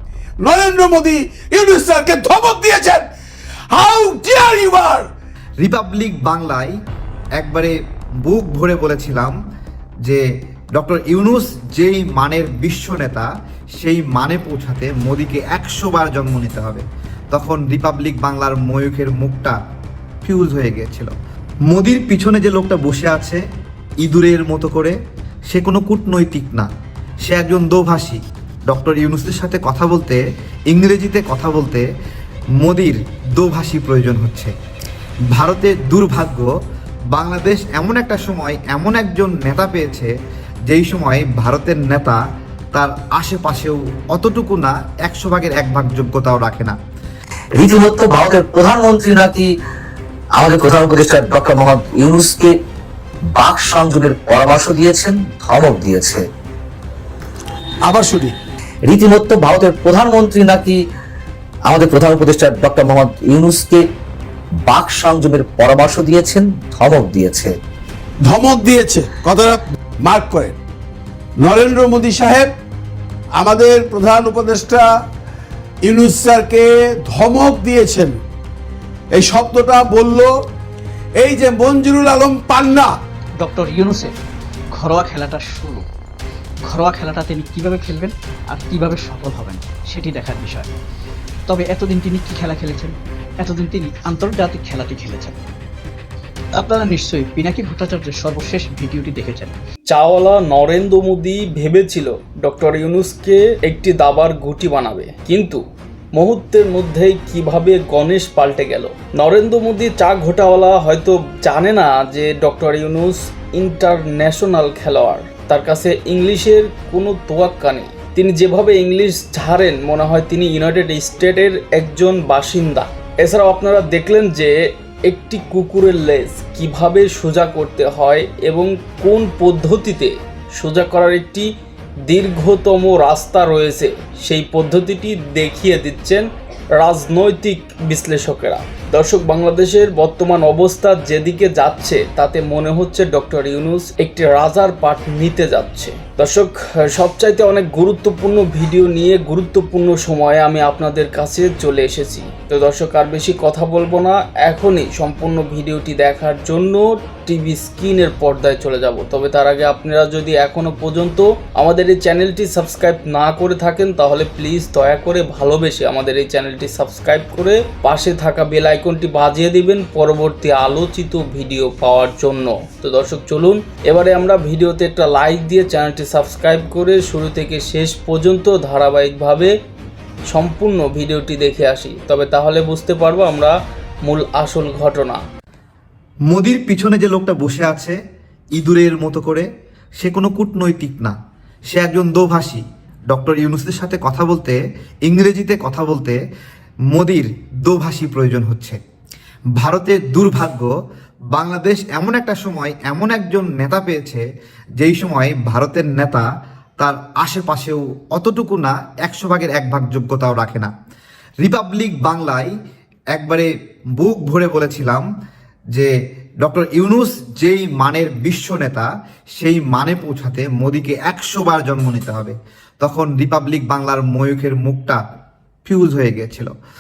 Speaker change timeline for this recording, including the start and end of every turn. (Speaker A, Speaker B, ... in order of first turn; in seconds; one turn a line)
Speaker A: 0.4-3.0
Speaker A: 3.7-5.1
Speaker B: 5.6-6.8
Speaker B: 7.4-9.3
Speaker B: 10.0-19.6
Speaker B: 20.2-21.1
Speaker B: 21.7-23.4
Speaker B: 24.0-25.0
Speaker B: 25.5-26.7
Speaker B: 27.3-30.2
Speaker B: 30.7-31.9
Speaker B: 32.6-34.5
Speaker B: 35.3-36.5
Speaker B: 37.1-40.1
Speaker B: 40.7-42.2
Speaker B: 42.7-46.8
Speaker C: 47.6-49.5
Speaker C: 50.4-52.5
Speaker C: 53.3-56.2
Speaker A: 57.8-58.4
Speaker C: 58.9-60.8
Speaker C: 61.6-63.8
Speaker C: 64.6-67.5
Speaker A: 68.2-70.6
Speaker A: 71.4-72.5
Speaker A: 73.4-74.9
Speaker A: 75.8-78.1
Speaker A: 79.1-80.3
Speaker A: 81.2-82.9
Speaker D: 83.4-84.1
Speaker D: 84.7-85.8
Speaker D: 86.7-90.7
Speaker D: 91.5-95.4
Speaker D: 96.6-99.5
Speaker E: 99.9-105.6
Speaker E: 106.2-124.5
Speaker E: 125.1-131.5
Speaker E: 132.1-136.2
Speaker E: 136.8-179.5
Speaker E: 180.3-185.2
Speaker B: 186.3-188.0
Speaker B: 188.6-189.5
Speaker B: 190.0-191.2
Speaker B: 191.7-196.2
Speaker B: 196.9-198.8
Speaker B: 199.6-200.7
Speaker B: 201.3-204.2
Speaker B: 204.8-206.3
Speaker B: 206.8-210.7
Speaker B: 211.4-212.5
Speaker B: 213.1-215.1
Speaker B: 215.7-225.0
Speaker B: 225.7-226.5